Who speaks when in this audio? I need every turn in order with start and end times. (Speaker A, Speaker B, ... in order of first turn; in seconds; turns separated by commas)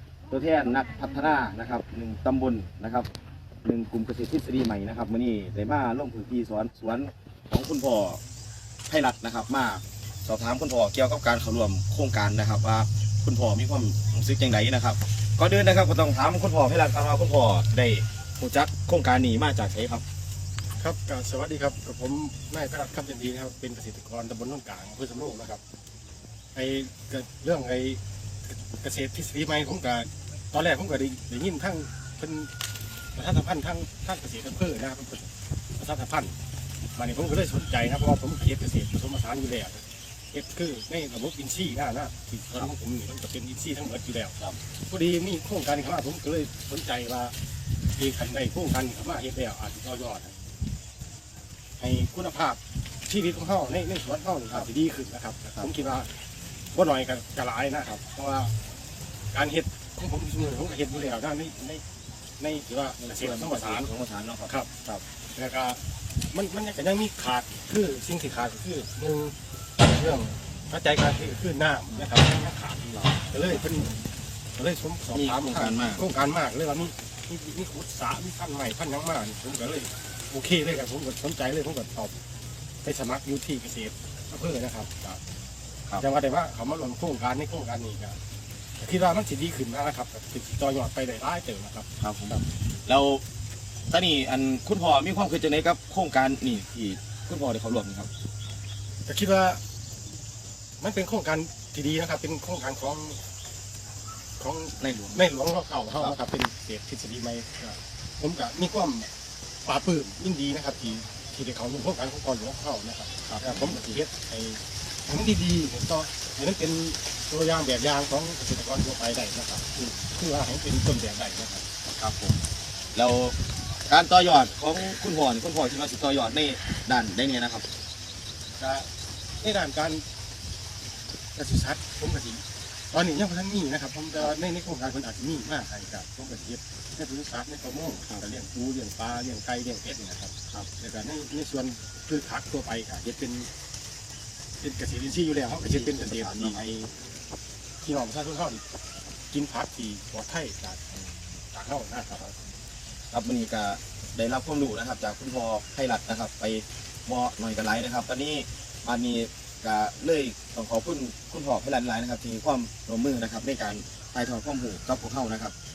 Speaker A: 0.3-3.1, Speaker A: 3.6-8.2, Speaker A: 8.9-20.0, Speaker B: 20.8-25.6, Speaker B: 26.5-32.5, Speaker B: 33.1-36.3, Speaker B: 37.0-47.3, Speaker B: 48.0-50.4, Speaker B: 51.8-56.1, Speaker B: 56.7-58.5, Speaker B: 59.3-61.8, Speaker B: 62.4-63.9, Speaker A: 63.0-64.5, Speaker B: 64.5-65.8, Speaker B: 66.3-74.0, Speaker B: 74.5-82.2, Speaker A: 75.1-76.0, Speaker B: 82.8-85.2, Speaker B: 85.9-88.2, Speaker B: 88.8-92.4, Speaker A: 92.0-93.2, Speaker A: 93.9-98.1, Speaker B: 99.0-99.6, Speaker B: 100.8-103.2, Speaker B: 104.4-109.1, Speaker A: 104.8-105.2, Speaker B: 109.6-121.6, Speaker A: 113.3-113.8, Speaker A: 121.9-122.4, Speaker A: 122.9-127.7, Speaker B: 128.6-128.9, Speaker B: 129.4-130.0, Speaker B: 131.3-143.5, Speaker B: 144.6-146.9, Speaker A: 145.6-146.6, Speaker B: 147.8-148.6, Speaker B: 149.3-152.4, Speaker A: 153.1-165.5